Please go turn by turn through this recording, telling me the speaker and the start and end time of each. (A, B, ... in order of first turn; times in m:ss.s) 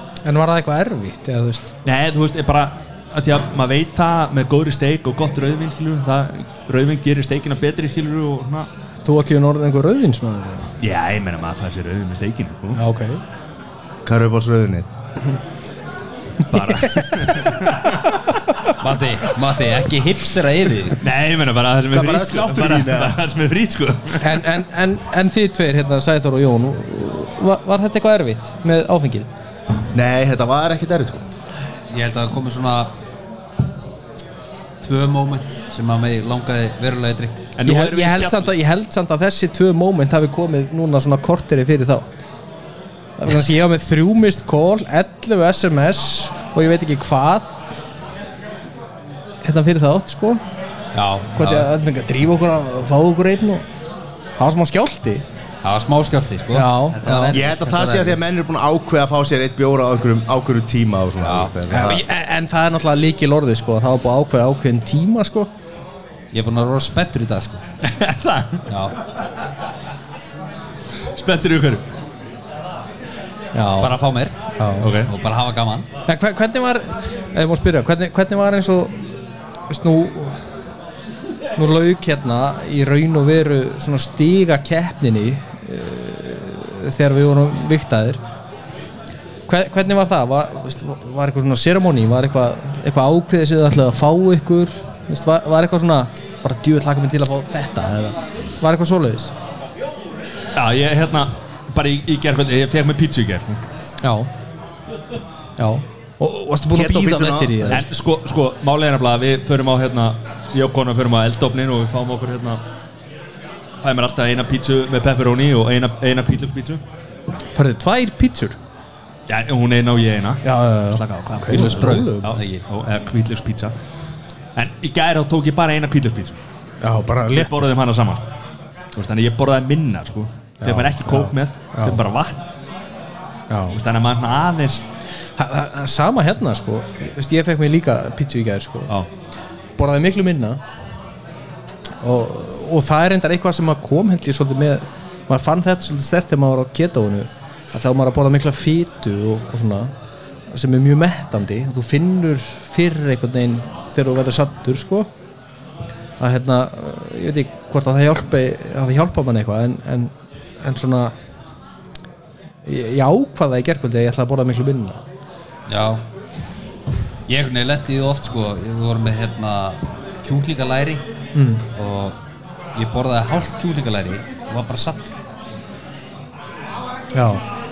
0:00.2-0:01.7 A
0:01.8-0:08.7 B
0:09.0-0:10.7 A
0:10.8-0:12.8 B
0:12.7-0:13.2 A
0:14.0-0:14.9 C
0:16.5-0:18.1 B
0:16.5-0:17.6 A
0:18.8-0:21.0 D
0:21.0-0:24.3 B
0:21.9-0:23.2 C
0:24.2-0:29.3 A
0:29.9-0:31.2 C
0:31.9-0:32.9 D
0:34.8-0:37.4 D
0:37.6-0:38.5 B
0:37.6-0:42.2 A
0:43.2-0:47.5 A
0:49.4-0:50.4 A
0:50.9-0:51.7 D
0:51.3-0:53.6 A
0:54.4-0:55.2 A
0:55.6-0:58.2 D
0:56.5-0:57.4 A
0:57.3-1:02.0 C
1:01.2-1:01.5 D
1:01.7-1:05.5 A
1:06.3-1:07.6 D
1:07.8-1:08.6 B
1:08.7-1:08.9 D
1:11.1-1:11.8 B
1:13.5-1:13.9 A
1:13.8-1:14.3 D
1:14.6-1:14.9 A
1:14.8-1:15.1 B
1:15.0-1:15.8 D
1:16.0-1:18.9 A
1:19.7-1:20.4 A
1:21.6-1:28.2 A
1:29.5-1:39.3 A
1:40.6-1:43.6 B
1:44.0-1:44.3 A
1:45.6-1:47.8 A
1:46.7-1:47.7 C
1:47.7-1:52.6 B
1:53.8-1:56.8 B
1:57.5-1:58.6 A
1:59.3-2:03.7 B
2:00.4-2:02.4 A
2:02.3-2:02.6 D
2:04.6-2:06.4 B
2:06.8-2:07.6 A
2:07.3-2:08.2 B
2:09.0-2:12.4 B
2:10.6-2:12.0 A
2:13.5-2:13.8 A
2:13.7-2:14.8 B
2:15.4-2:18.9 A
2:19.8-2:20.6 A
2:22.0-2:29.9 A
2:30.5-2:35.1 A
2:36.2-2:41.1 A
2:42.6-2:45.0 A
2:45.7-2:46.0 D
2:47.3-2:51.0 D
2:51.3-2:51.6 A
2:51.7-2:52.2 D
2:52.7-2:55.2 D
2:57.1-2:57.4 A